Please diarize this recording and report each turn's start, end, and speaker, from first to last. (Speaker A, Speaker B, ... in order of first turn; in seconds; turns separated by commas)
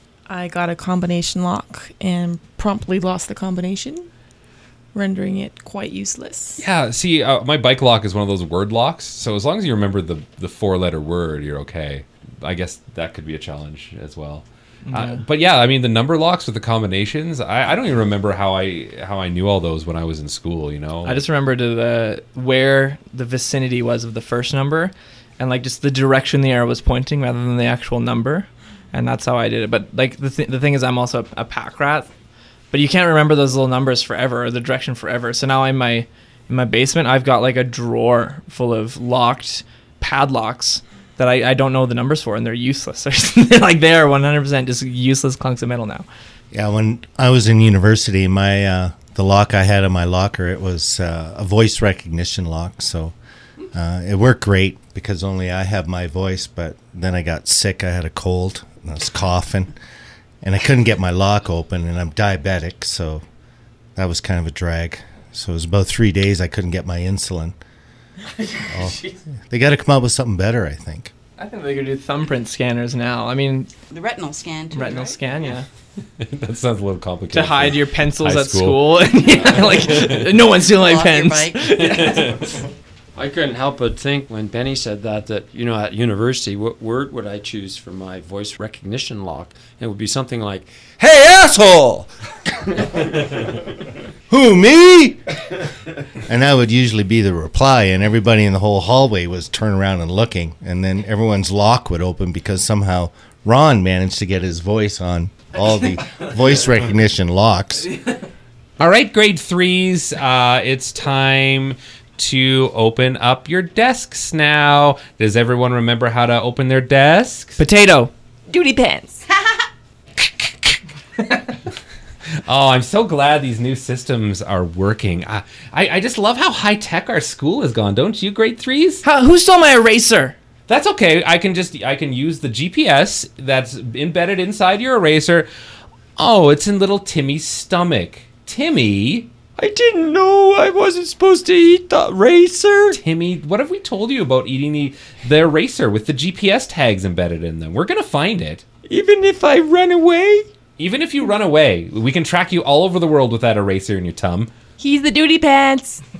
Speaker A: 0.3-4.0, Speaker A: 4.9-6.6, Speaker B: 6.6-21.2, Speaker C: 21.0-32.1, Speaker C: 32.7-46.1, Speaker D: 46.5-53.1, Speaker D: 53.7-59.7, Speaker D: 60.4-63.2, Speaker D: 64.0-67.5, Speaker D: 68.7-71.1, Speaker C: 71.4-73.7, Speaker E: 73.9-75.1, Speaker C: 74.7-75.7, Speaker B: 76.2-79.0, Speaker C: 77.3-82.4, Speaker F: 79.3-80.1, Speaker E: 80.5-81.7, Speaker F: 81.7-82.3, Speaker F: 83.1-92.1, Speaker D: 94.3-95.2, Speaker D: 96.3-107.9, Speaker B: 108.8-117.6, Speaker C: 117.6-118.1, Speaker A: 118.5-119.2, Speaker B: 122.5-129.0, Speaker C: 129.0-130.3, Speaker B: 130.7-135.5, Speaker B: 136.2-139.3, Speaker C: 139.6-143.0, Speaker B: 142.9-148.6, Speaker C: 148.8-150.4, Speaker B: 150.8-154.5, Speaker A: 154.8-156.0